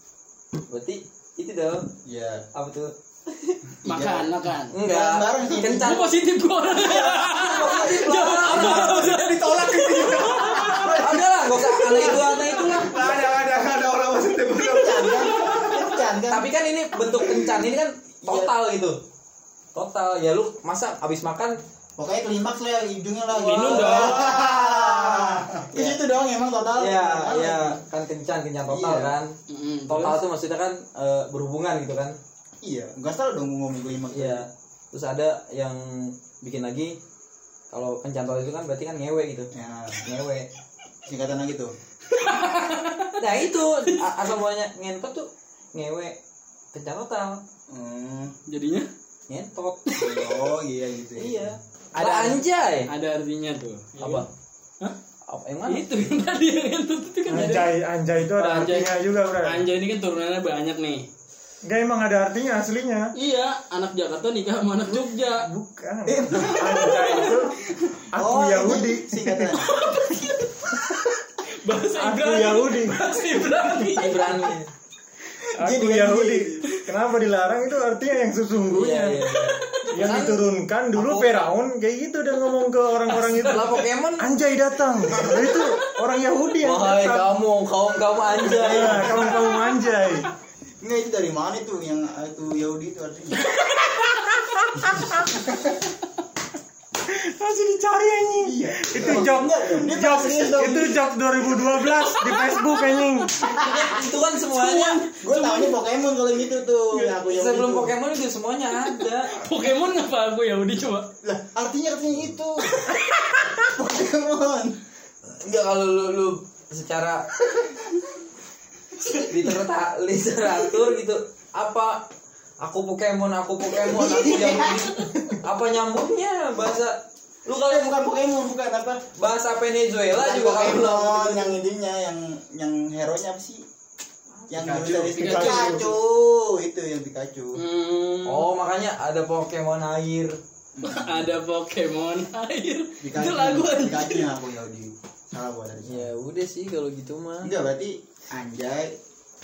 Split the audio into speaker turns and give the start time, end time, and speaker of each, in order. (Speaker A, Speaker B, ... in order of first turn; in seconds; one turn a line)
Speaker A: 0.7-1.9
Speaker B: 2.0-2.5
Speaker A: 2.5-3.6
Speaker B: 3.9-4.3
Speaker C: 3.9-4.7
Speaker A: 4.7-6.2
Speaker B: 4.8-6.0
Speaker C: 5.7-11.1
Speaker A: 6.8-9.2
Speaker D: 9.1-11.1
Speaker A: 10.7-13.0
Speaker B: 10.8-11.2
Speaker D: 11.8-15.8
Speaker B: 14.6-16.5
Speaker C: 15.4-15.7
Speaker A: 16.3-19.0
Speaker B: 18.2-18.5
Speaker A: 19.8-21.6
Speaker B: 22.0-27.8
Speaker C: 23.4-24.3
Speaker D: 23.6-25.9
Speaker A: 26.8-29.4
Speaker B: 28.7-29.1
Speaker C: 29.5-30.2
Speaker A: 29.9-32.2
Speaker B: 32.6-34.5
Speaker A: 34.1-37.0
Speaker A: 37.7-40.5
Speaker B: 39.5-40.1
Speaker B: 41.1-41.8
Speaker C: 42.1-43.2
Speaker A: 43.2-46.2
Speaker A: 46.7-47.4
Speaker B: 47.7-48.4
Speaker C: 48.5-48.9
Speaker A: 49.3-49.8
Speaker C: 49.9-50.4
Speaker B: 50.0-51.6
Speaker C: 51.2-54.3
Speaker A: 52.0-52.9
Speaker A: 54.0-54.3
Speaker A: 55.3-55.9
Speaker C: 55.7-57.7
Speaker E: 57.3-59.6
Speaker C: 58.4-61.1
Speaker E: 61.6-63.1
Speaker C: 63.1-65.5
Speaker E: 65.3-67.5
Speaker B: 66.1-67.1
Speaker C: 66.8-67.9
Speaker E: 68.1-69.6
Speaker B: 68.2-69.8
Speaker C: 69.5-70.5
Speaker C: 71.6-74.5
Speaker E: 72.0-73.0
Speaker A: 73.8-74.7
Speaker E: 75.6-79.3
Speaker B: 75.6-76.7
Speaker A: 78.7-80.4
Speaker C: 79.3-80.0
Speaker E: 79.9-87.3
Speaker A: 81.0-81.5
Speaker C: 83.1-83.8
Speaker A: 83.4-84.3
Speaker B: 85.1-85.6
Speaker A: 86.6-89.2
Speaker B: 88.5-89.5
Speaker E: 88.5-90.3
Speaker B: 90.8-93.5
Speaker C: 93.6-94.2
Speaker E: 94.1-95.4
Speaker E: 97.1-103.4
Speaker B: 98.4-101.0
Speaker C: 101.8-103.5
Speaker B: 103.4-107.9
Speaker A: 103.5-105.1
Speaker C: 105.3-105.7
Speaker A: 107.2-109.4
Speaker C: 109.3-111.1
Speaker B: 111.2-112.9
Speaker B: 113.6-114.8
Speaker A: 115.3-117.3
Speaker A: 119.2-122.1
Speaker A: 122.6-128.0
Speaker B: 123.8-124.9
Speaker B: 127.5-129.0
Speaker A: 129.2-131.6
Speaker B: 130.1-133.6
Speaker B: 134.5-137.6
Speaker D: 134.5-135.7
Speaker C: 135.2-135.9
Speaker E: 135.2-135.7
Speaker C: 137.6-138.5
Speaker A: 138.2-140.4
Speaker B: 140.8-141.3
Speaker C: 140.8-144.3
Speaker B: 143.0-146.1
Speaker A: 145.8-147.5
Speaker B: 147.4-148.9